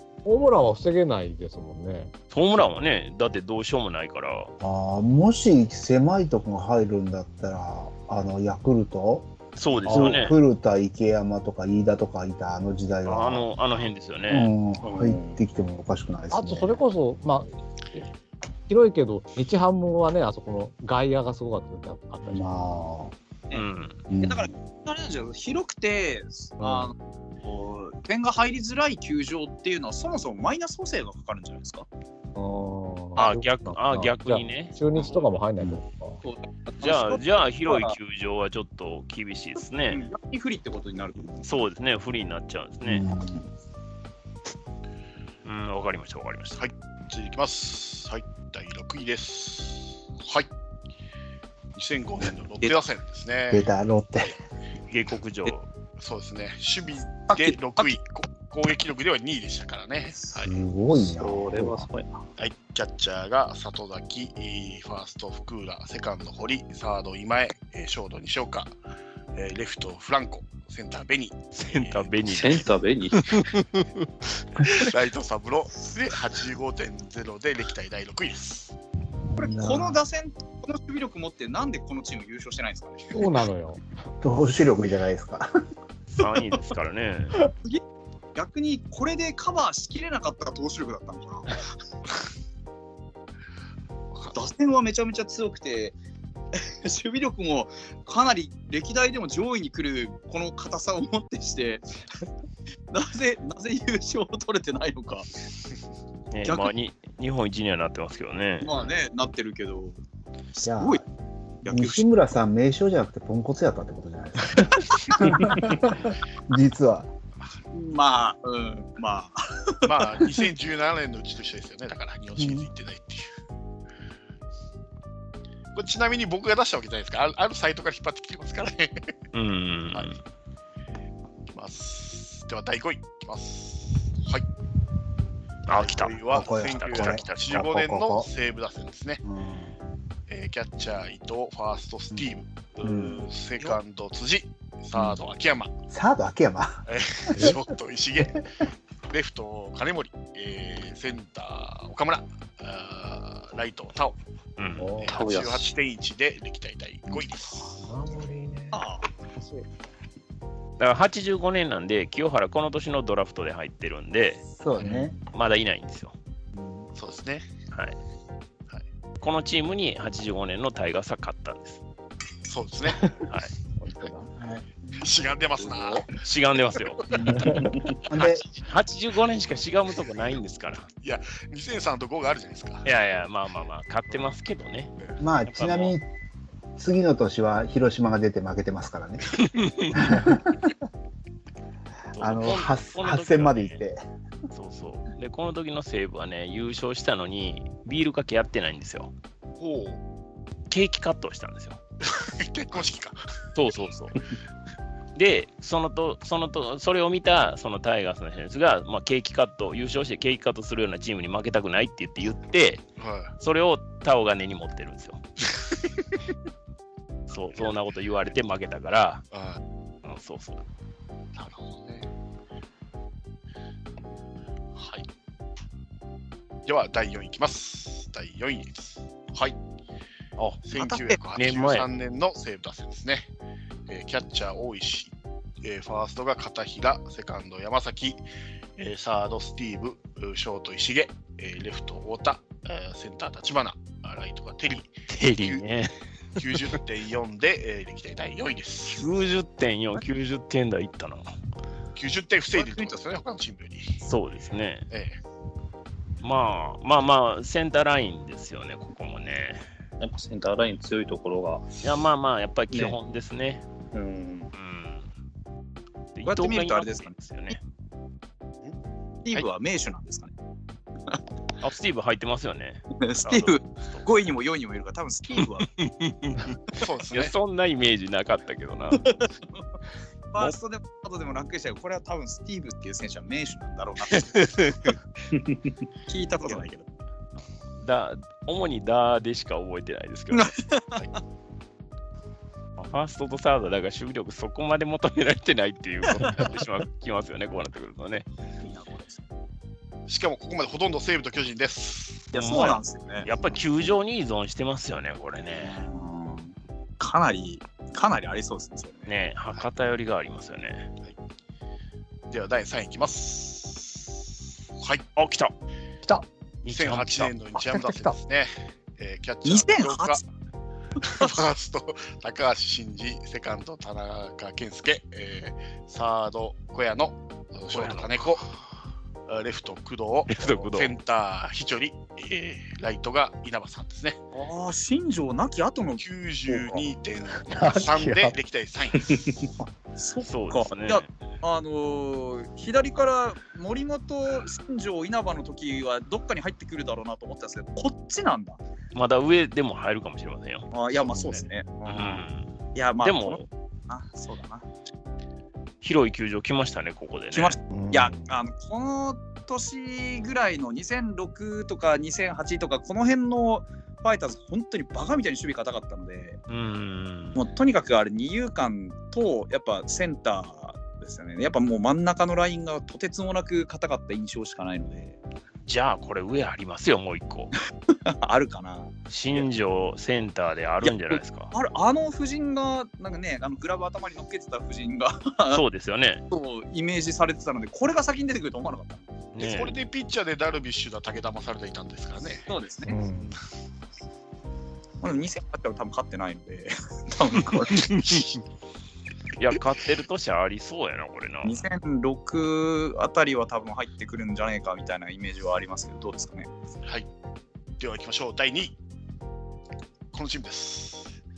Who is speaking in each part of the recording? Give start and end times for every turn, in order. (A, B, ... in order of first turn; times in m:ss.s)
0:00.2-0:02.1 A
0:02.3-0:04.5 B
0:04.6-0:09.3 C
0:09.6-0:10.4 B
0:09.9-0:13.5 C
0:09.9-0:10.2 A
0:13.0-0:14.5 B
0:14.3-0:16.8 C
0:14.8-0:15.4 D
0:16.3-0:18.0 A
0:18.7-0:22.4 A
0:22.3-0:23.1 C
0:23.5-0:24.0 B
0:24.1-0:24.5 C
0:24.2-0:31.9 E
0:26.6-0:26.9 A
0:32.4-0:36.2 A
0:33.2-0:35.2 B
0:36.2-0:38.0 E
0:36.8-0:40.1 B
0:39.9-0:41.5 E
0:41.4-0:43.1 B
0:42.8-0:43.5 C
0:45.4-0:46.6 B
0:46.6-0:50.5 F
0:51.8-0:53.7 F
0:53.5-0:54.4 C
0:54.9-0:55.7 B
0:56.0-1:00.5 F
0:57.2-0:57.9 E
1:00.3-1:01.9 C
1:01.0-1:02.2 D
1:02.4-1:08.8 F
1:09.3-1:12.2 F
1:11.5-1:13.9 B
1:12.2-1:13.3 D
1:14.7-1:18.8 F
1:19.3-1:20.0 C
1:19.4-1:23.3 E
1:23.1-1:23.8 A
1:24.2-1:25.5 C
1:26.1-1:27.4 B
1:26.2-1:26.6 E
1:28.4-1:31.5 E
1:34.3-1:36.0 E
1:36.8-1:41.8 E
1:42.9-1:45.3 E
1:46.3-1:48.8 B
1:46.4-1:46.7 E
1:48.6-1:50.0 E
1:50.5-1:51.0 E
1:50.6-1:51.0 C
1:51.6-1:52.1 E
1:51.6-1:57.1 C
1:55.1-1:55.4 E
1:57.7-2:00.0 E
1:59.8-2:03.3 F
2:02.4-2:02.7 C
2:05.8-2:09.0 F
2:09.3-2:10.2 B
2:11.5-2:14.5 F
2:15.7-2:17.7 B
2:15.7-2:19.2 F
2:16.3-2:18.3 C
2:19.2-2:19.7 C
2:20.3-2:25.7 F
2:22.8-2:23.3 C
2:25.9-2:27.6 C
2:26.9-2:28.4 F
2:29.1-2:34.2 F
2:34.6-2:35.0 B
2:34.8-2:35.2 A
2:35.0-2:37.7 F
2:35.1-2:35.7 D
2:37.6-2:38.8 A
2:38.7-2:39.1 E
2:39.4-2:39.7 A
2:40.8-2:44.5 B
2:44.6-2:45.2 C
2:44.8-2:45.1 A
2:45.3-2:46.2 B
2:46.9-2:47.5 F
2:49.2-2:51.8 B
2:52.4-2:53.2 F
2:53.8-2:54.3 A
2:54.4-2:54.7 C
2:55.0-2:56.1 F
2:55.7-2:56.0 D
2:56.2-2:57.2 B
2:57.1-2:58.4 C
2:58.2-3:00.9 B
3:01.0-3:02.9 F
3:02.8-3:06.0 B
3:05.2-3:06.1 C
3:06.8-3:09.4 C
3:09.4-3:10.1 B
3:09.9-3:10.7 C
3:12.1-3:13.8 B
3:12.2-3:14.0 C
3:14.5-3:19.1 B
3:19.6-3:20.0 F
3:20.7-3:21.8 B
3:22.1-3:23.2 F
3:23.6-3:24.2 B
3:25.2-3:32.8 B
3:33.0-3:33.3 F
3:33.4-3:35.2 B
3:37.3-3:39.2 B
3:39.3-3:39.6 F
3:40.0-3:40.6 B
3:41.4-3:42.1 F
3:44.8-3:45.1 F
3:46.7-3:49.6 F
3:50.6-3:53.3 F
3:50.8-3:51.2 E
3:51.4-3:51.9 B
3:53.9-3:58.2 F
3:58.8-4:05.6 F
4:05.1-4:05.9 B
4:06.4-4:09.0 F
4:08.9-4:11.3 B
4:12.0-4:14.0 F
4:12.6-4:13.0 E
4:14.0-4:14.9 B
4:14.9-4:15.2 F
4:16.2-4:19.7 B
4:20.0-4:21.7 D
4:21.8-4:23.7 B
4:22.7-4:23.0 D
4:23.9-4:24.5 D
4:24.5-4:25.1 B
4:26.2-4:27.6 B
4:26.3-4:27.6 E
4:29.2-4:30.3 E
4:31.6-4:34.1 B
4:33.0-4:35.7 E
4:35.4-4:36.6 B
4:36.8-4:37.3 F
4:37.1-4:39.2 B
4:38.9-4:39.2 E
4:40.3-4:44.4 E
4:44.1-4:45.0 B
4:46.1-4:46.9 E
4:47.7-4:50.6 B
4:50.3-4:51.0 E
4:52.8-4:58.3 B
4:56.1-4:56.5 E
4:58.6-4:59.2 E
5:00.1-5:02.3 F
5:02.3-5:03.6 E
5:02.3-5:05.9 B
5:05.6-5:09.1 E
5:09.1-5:10.9 B
5:12.3-5:14.2 F
5:14.8-5:15.0 F
5:15.2-5:15.5 B
5:16.6-5:17.4 B
5:16.7-5:20.2 F
5:17.6-5:18.2 A
5:19.4-5:20.2 E
5:21.0-5:28.5 F
5:27.7-5:28.1 B
5:29.3-5:34.2 F
5:30.3-5:31.0 B
5:34.3-5:36.9 E
5:36.0-5:39.3 F
5:37.5-5:38.4 A
5:40.0-5:48.6 E
5:40.2-5:41.1 B
5:48.9-5:50.7 B
5:50.7-5:54.7 E
5:51.0-5:51.4 F
5:51.9-5:53.5 B
5:55.8-5:57.6 B
5:57.3-6:06.4 E
5:57.7-5:58.3 A
6:06.5-6:07.5 B
6:07.4-6:15.2 E
6:15.6-6:17.5 B
6:18.1-6:19.4 E
6:19.1-6:21.5 B
6:20.8-6:25.6 E
6:25.5-6:26.2 B
6:26.3-6:29.1 E
6:29.3-6:29.8 B
6:29.4-6:32.5 F
6:32.5-6:33.0 E
6:32.8-6:33.4 A
6:35.0-6:38.1 E
6:39.4-6:41.6 B
6:41.4-6:46.5 E
6:47.8-6:48.8 F
6:50.1-6:51.2 F